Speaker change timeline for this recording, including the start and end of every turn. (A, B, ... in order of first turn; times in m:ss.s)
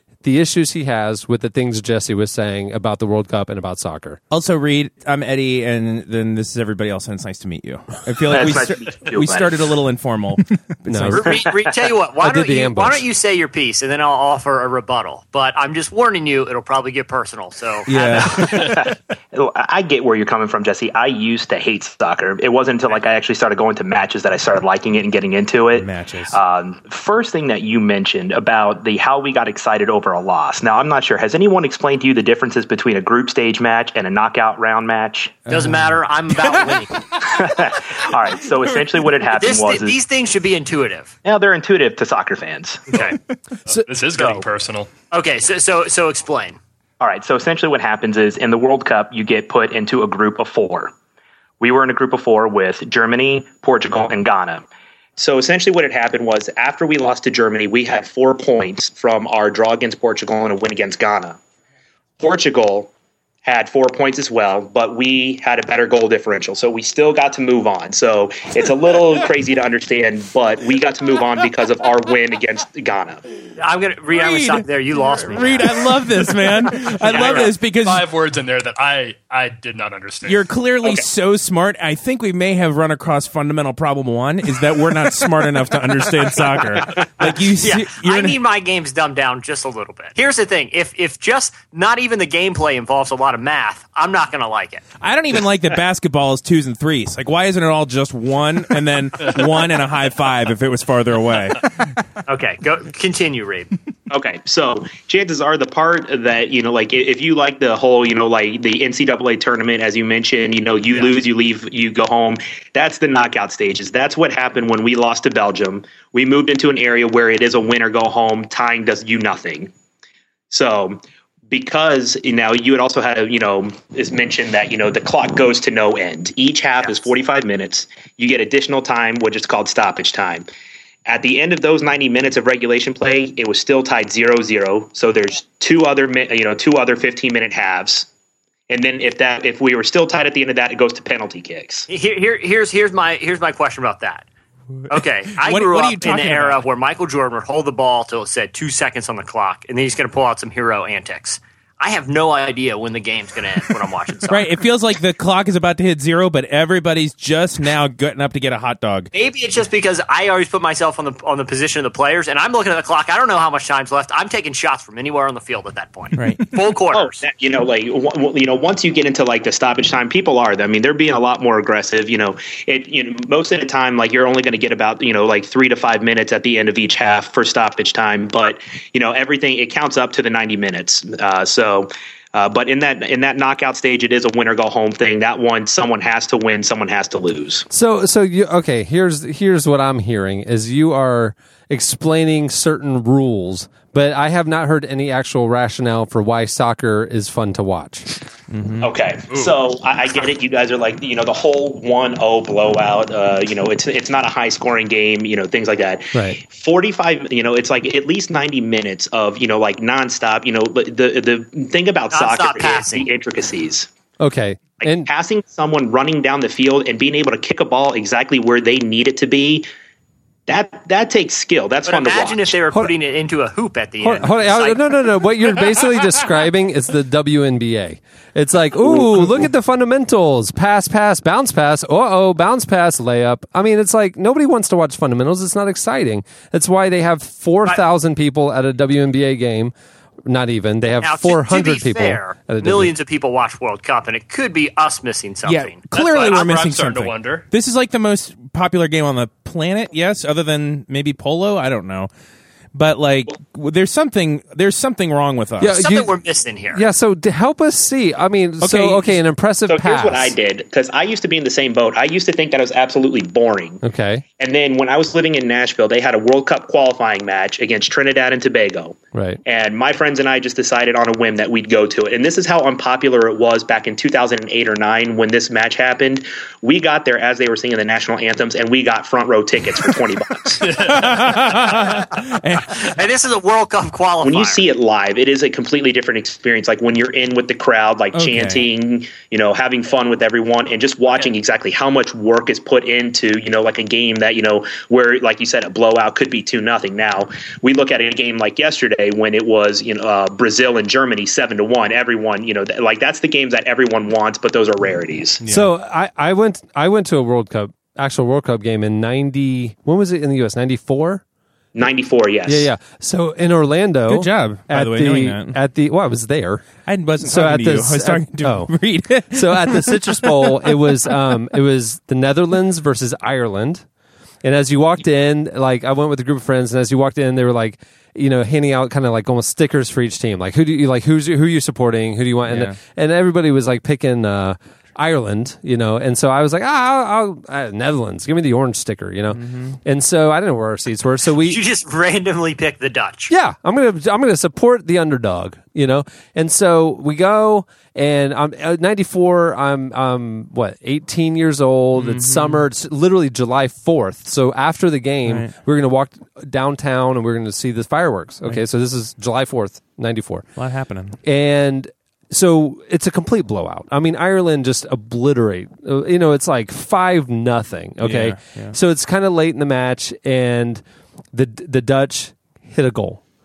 0:00.2-0:04.2 A
0:04.3-0:11.4 B
0:08.3-0:09.5 C
0:10.9-0:11.3 A
0:11.1-0:18.6 D
0:12.2-0:13.0 A
0:17.9-0:18.7 B
0:18.3-0:35.4 C
0:25.8-0:26.4 B
0:35.5-0:36.0 B
0:35.5-0:37.0 D
0:37.2-0:40.0 C
0:39.4-0:41.1 D
0:41.2-0:42.9 C
0:42.9-0:43.2 D
0:43.7-0:44.9 E
0:44.2-0:44.4 D
0:45.1-0:46.6 D
0:47.0-0:50.9 C
0:51.6-0:54.6 C
0:55.2-1:01.4 C
1:02.2-1:02.9 C
1:03.4-1:13.2 C
1:13.6-1:15.8 D
1:14.1-1:18.0 B
1:17.1-1:17.4 C
1:17.1-1:17.5 D
1:17.1-1:20.4 E
1:20.2-1:28.4 B
1:27.0-1:34.8 D
1:35.0-1:41.6 B
1:42.3-1:43.7 D
1:44.1-1:59.7 C
2:00.5-2:10.4 C
2:06.8-2:07.1 D
2:11.0-2:18.1 C
2:18.7-2:21.9 C
2:21.9-2:24.2 D
2:24.7-2:26.6 B
2:24.9-2:34.5 D
2:34.3-2:39.1 B
2:39.1-2:47.2 D
2:46.1-2:46.4 B
2:46.9-3:07.7 C
3:07.7-3:18.1 A
3:18.5-3:18.9 B
3:18.8-3:33.9 C
3:26.1-3:26.4 A
3:32.1-3:33.1 D
3:34.2-3:35.1 A
3:35.0-3:39.6 C
3:40.5-3:42.6 C
3:41.8-3:44.8 D
3:44.0-3:59.7 A
4:00.2-4:02.9 A
4:01.0-4:05.8 D
4:05.4-4:12.1 B
4:05.9-4:07.4 E
4:12.7-4:15.8 B
4:15.6-4:16.1 A
4:15.7-4:16.8 D
4:16.7-4:20.3 A
4:18.6-4:19.2 B
4:19.7-4:23.8 C
4:23.8-4:24.2 A
4:24.4-4:40.7 C
4:29.1-4:29.4 A
4:40.6-4:41.1 E
4:40.7-4:42.9 B
4:42.7-4:44.6 D
4:44.2-5:05.4 C
4:48.1-4:48.6 B
5:05.4-5:05.7 B
5:05.4-5:11.2 A
5:11.7-5:12.7 C
5:12.4-5:16.7 A
5:14.1-5:15.6 B
5:16.8-5:21.1 B
5:17.2-5:23.8 A
5:24.4-5:41.6 A
5:32.4-5:32.8 B
5:39.3-5:39.8 B
5:41.4-5:43.3 D
5:43.3-6:00.4 A
5:51.9-5:52.6 B
5:55.2-5:55.6 B
6:00.6-6:01.2 B
6:01.2-6:10.8 A
6:08.0-6:08.8 B
6:11.3-6:13.2 A